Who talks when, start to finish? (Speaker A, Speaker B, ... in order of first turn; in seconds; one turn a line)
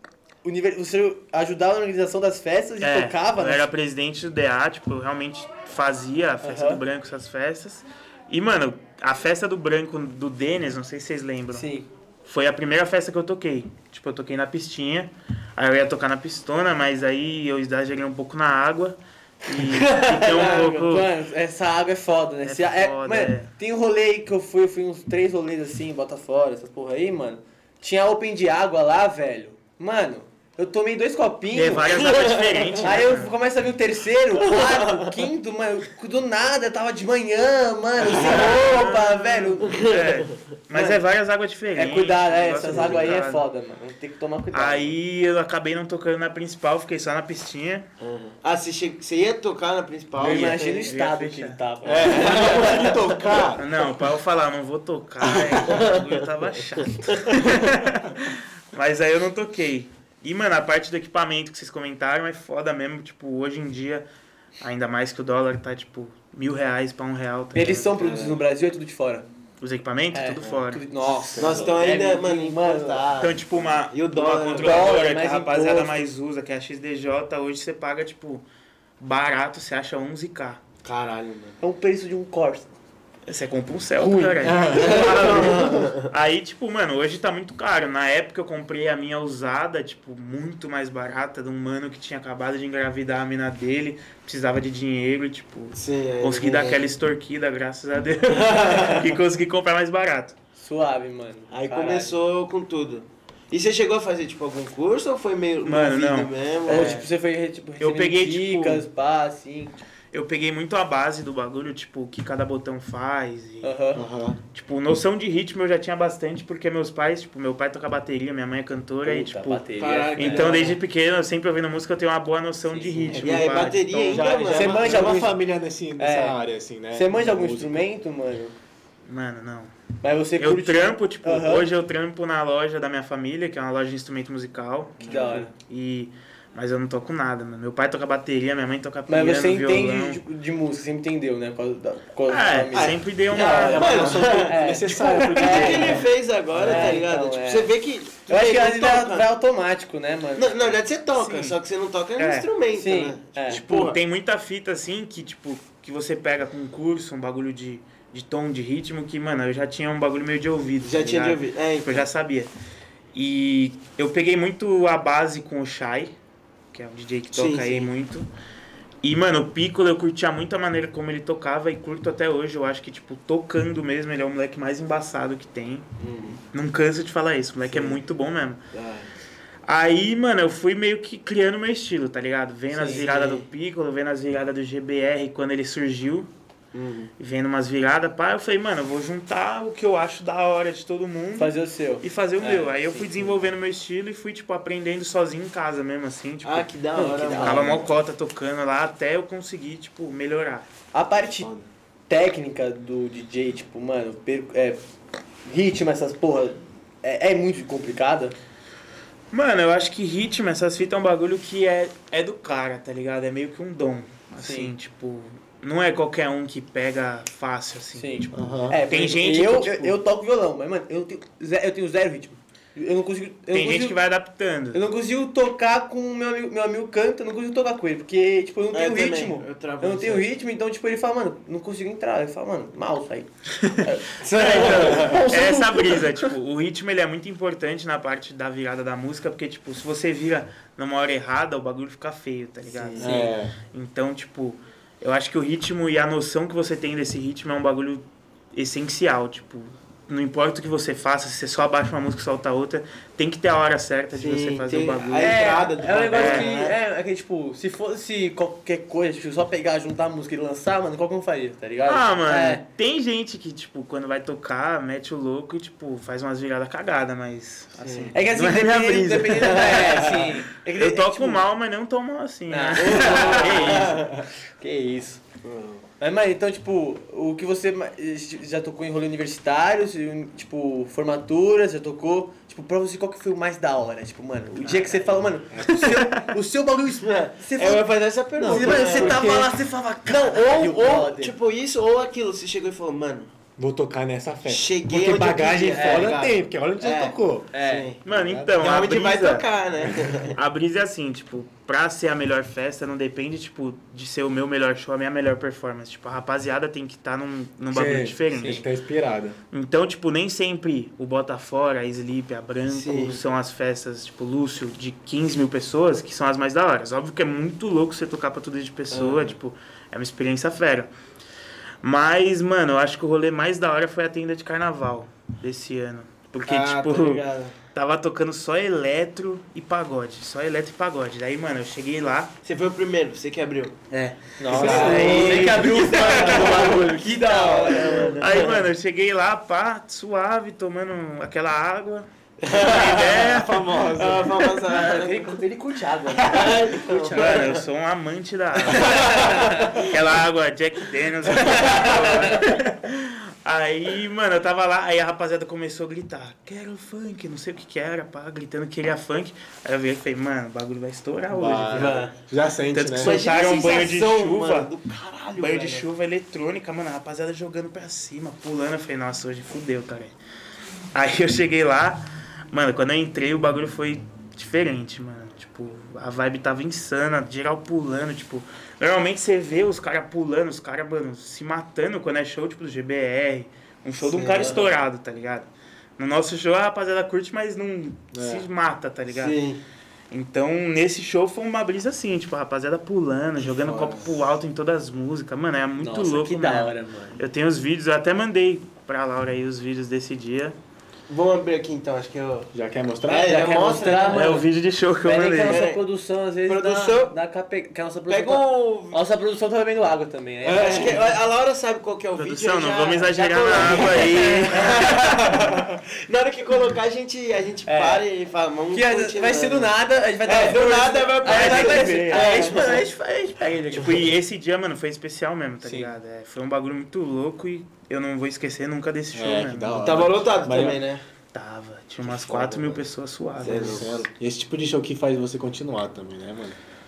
Speaker A: 0.4-3.6
Speaker B: 2.8-21.1
Speaker A: 6.4-6.8
Speaker A: 11.5-11.9
Speaker C: 19.5-20.9
Speaker A: 20.3-32.2
Speaker B: 22.4-23.5
Speaker B: 31.5-33.3
Speaker C: 32.2-32.5
Speaker A: 32.8-39.9
Speaker C: 34.5-35.1
Speaker D: 38.0-38.5
Speaker B: 38.1-43.5
Speaker C: 39.7-40.3
Speaker A: 40.7-41.0
Speaker A: 41.8-44.9
Speaker B: 44.5-47.9
Speaker C: 48.0-50.9
Speaker A: 50.2-53.0
Speaker B: 50.2-51.6
Speaker D: 51.9-53.9
Speaker C: 52.1-53.5
Speaker B: 53.6-64.0
Speaker D: 55.2-55.6
Speaker C: 55.6-56.2
Speaker C: 56.8-57.4
Speaker B: 64.6-68.3
Speaker A: 67.5-69.3
Speaker B: 69.6-70.8
Speaker A: 70.1-73.1
Speaker D: 71.1-71.8
Speaker C: 71.4-75.0
Speaker B: 73.2-78.5
Speaker A: 74.5-76.0
Speaker B: 79.0-80.6
Speaker C: 80.8-81.6
Speaker A: 81.6-82.7
Speaker B: 83.3-100.3
Speaker A: 84.0-85.9
Speaker D: 84.4-85.2
Speaker C: 84.7-86.1
Speaker C: 95.8-96.8
Speaker C: 98.3-99.2
Speaker A: 100.6-102.2
Speaker C: 101.5-107.0
Speaker B: 105.6-107.1
Speaker A: 106.7-109.8
Speaker B: 107.8-108.8
Speaker B: 110.1-113.8
Speaker A: 113.6-114.0
Speaker D: 113.9-114.4
Speaker B: 114.5-124.8
Speaker A: 119.0-120.6
Speaker C: 119.8-120.8
Speaker A: 122.7-123.2
Speaker D: 123.1-127.8
Speaker C: 123.1-125.3
Speaker A: 124.1-125.4
Speaker A: 126.0-126.4
Speaker A: 126.9-128.6
Speaker B: 129.1-129.7
Speaker A: 130.0-131.7
Speaker B: 130.4-140.2
Speaker A: 135.0-135.5
Speaker D: 135.0-135.5
Speaker A: 139.1-146.1
Speaker B: 142.3-144.2
Speaker C: 142.7-144.6
Speaker D: 143.3-147.0
Speaker B: 144.9-145.3
Speaker C: 145.2-149.3
Speaker A: 146.6-147.7
Speaker A: 148.3-150.8
Speaker C: 150.3-154.0
Speaker B: 151.2-151.6
Speaker B: 152.2-152.5
Speaker A: 152.7-153.6
Speaker B: 153.5-162.5
Speaker C: 160.8-162.1
Speaker B: 163.1-166.1
Speaker B: 166.7-168.3
Speaker C: 167.3-167.9
Speaker B: 169.0-175.9
Speaker C: 176.0-176.4
Speaker B: 176.5-178.6
Speaker C: 177.7-178.0
Speaker C: 178.7-179.1
Speaker B: 179.7-186.3
Speaker A: 182.7-183.1
Speaker C: 182.8-183.5
Speaker C: 186.7-187.1
Speaker B: 187.2-196.7
Speaker A: 191.4-193.3
Speaker C: 196.4-198.0
Speaker A: 196.9-197.8
Speaker B: 197.2-200.7
Speaker A: 200.9-201.5
Speaker C: 201.4-201.7
Speaker A: 202.1-204.8
Speaker A: 205.4-208.3
Speaker B: 209.3-219.9
Speaker A: 214.4-214.7
Speaker A: 218.0-224.0
Speaker D: 218.3-218.8
Speaker B: 223.5-224.8
Speaker A: 224.7-236.3
Speaker C: 228.7-230.3
Speaker B: 234.3-255.4
Speaker C: 234.5-235.2
Speaker D: 234.6-235.2
Speaker C: 242.7-243.2
Speaker D: 243.0-243.6
Speaker C: 254.1-256.8
Speaker A: 255.2-262.6
Speaker B: 256.1-256.5
Speaker B: 261.9-274.1
Speaker C: 267.8-268.1
Speaker A: 268.1-271.4
Speaker C: 269.4-269.9
Speaker A: 272.5-274.1
Speaker C: 272.8-274.2
Speaker A: 274.6-275.2
Speaker C: 275.4-275.9
Speaker A: 276.0-291.3
Speaker C: 284.7-285.0
Speaker D: 285.5-285.9
Speaker C: 286.9-289.5
Speaker D: 288.4-289.5
Speaker C: 290.1-293.3
Speaker D: 293.6-297.5
Speaker C: 294.5-298.0
Speaker A: 295.7-296.2
Speaker A: 297.5-297.9
Speaker D: 298.1-298.6
Speaker B: 298.1-308.7
Speaker C: 298.6-300.4
Speaker D: 307.7-309.4
Speaker B: 309.5-320.9
Speaker C: 312.7-313.2
Speaker C: 318.9-319.4
Speaker B: 321.8-332.3
Speaker C: 326.4-327.6
Speaker C: 332.4-333.8
Speaker B: 333.9-336.8
Speaker A: 334.4-338.2
Speaker D: 334.5-335.5
Speaker C: 334.5-338.7
Speaker B: 338.2-343.7
Speaker C: 342.4-345.4
Speaker D: 343.0-344.4
Speaker A: 344.6-347.5
Speaker C: 346.2-347.6
Speaker B: 346.9-362.1
Speaker C: 348.7-349.8
Speaker A: 348.8-349.7
Speaker D: 351.4-352.5
Speaker A: 351.7-352.1
Speaker D: 361.3-363.2
Speaker C: 361.7-362.1
Speaker B: 362.7-364.7
Speaker C: 363.0-365.9
Speaker B: 365.4-370.1
Speaker B: 370.9-389.4
Speaker C: 384.0-384.7
Speaker D: 388.1-388.5
Speaker C: 389.1-389.6
Speaker B: 390.1-400.6
Speaker C: 393.6-394.1
Speaker A: 395.8-397.2
Speaker C: 401.1-402.5
Speaker D: 402.5-403.8
Speaker C: 403.1-404.3
Speaker A: 403.2-404.5
Speaker B: 404.1-405.6
Speaker A: 405.0-411.1
Speaker C: 405.4-405.8
Speaker C: 406.5-407.1
Speaker C: 408.1-409.0
Speaker D: 410.4-411.2
Speaker C: 410.6-419.7
Speaker B: 412.2-414.9
Speaker A: 417.7-418.1
Speaker A: 418.7-424.1
Speaker C: 420.2-422.9
Speaker B: 421.2-422.7
Speaker B: 423.7-430.0
Speaker A: 425.6-425.9
Speaker D: 429.1-430.8
Speaker C: 429.8-431.0
Speaker B: 431.3-433.9
Speaker C: 432.0-432.8
Speaker C: 433.4-434.1
Speaker D: 433.4-436.6